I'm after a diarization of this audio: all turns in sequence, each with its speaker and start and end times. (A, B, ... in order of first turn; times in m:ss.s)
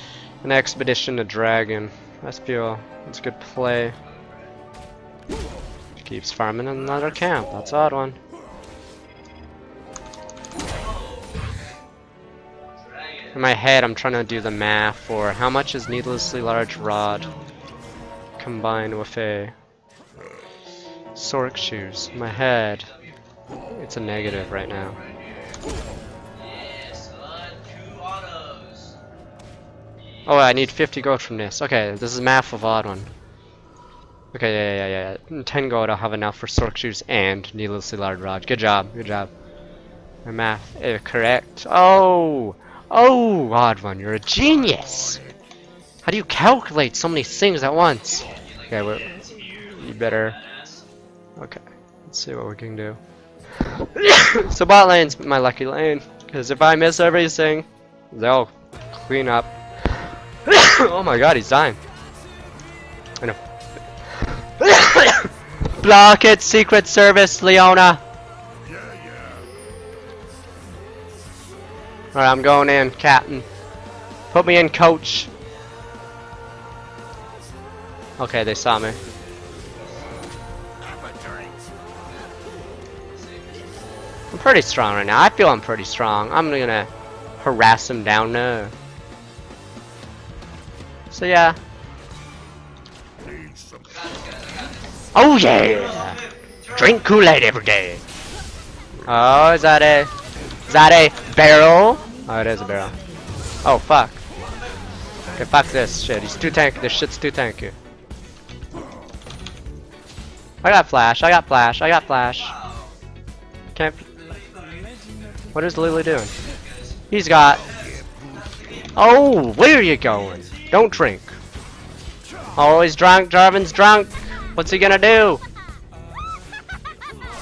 0:00.4-0:04.0 A
0:04.0-0:04.6 B
0:06.0-0:08.2 A
0:10.6-0:11.6 B
0:12.7-0:13.4 B
0:13.3-0:17.3 A
0:18.4-0:19.5 A
0:21.1-0:22.9 A
0:22.2-0:23.2 B
0:23.7-0:25.0 A
0:24.0-0:25.6 B
0:26.3-0:29.0 B
0:30.0-0:30.6 B
0:30.2-0:33.1 A
0:34.3-0:39.3 A
0:40.2-0:45.3 A
0:46.0-0:49.2 A
0:48.3-0:50.9 B
0:49.7-0:50.4 A
0:51.4-0:53.0 A
0:53.7-0:59.5 A
1:00.4-1:01.8 A
1:04.2-1:08.0 A
1:12.1-1:13.5 A
1:14.3-1:15.3 A
1:18.2-1:19.0 A
1:19.6-1:20.2 B
1:22.2-1:24.2 B
1:24.3-1:28.7 A
1:31.1-1:31.6 A
1:33.8-1:37.1 B
1:35.1-1:38.0 A
1:39.0-1:40.1 A
1:40.7-1:43.0 A
1:43.6-1:44.2 A
1:44.4-1:44.9 B
1:45.3-1:47.8 A
1:50.6-1:52.6 A
1:52.2-1:53.0 B
1:53.7-1:54.0 A
1:54.1-1:55.1 B
1:55.5-1:56.3 A
1:56.4-1:57.0 B
1:57.1-1:57.7 A
1:57.6-1:59.0 B
1:58.9-2:01.4 A
2:00.4-2:00.7 B
2:02.6-2:05.4 A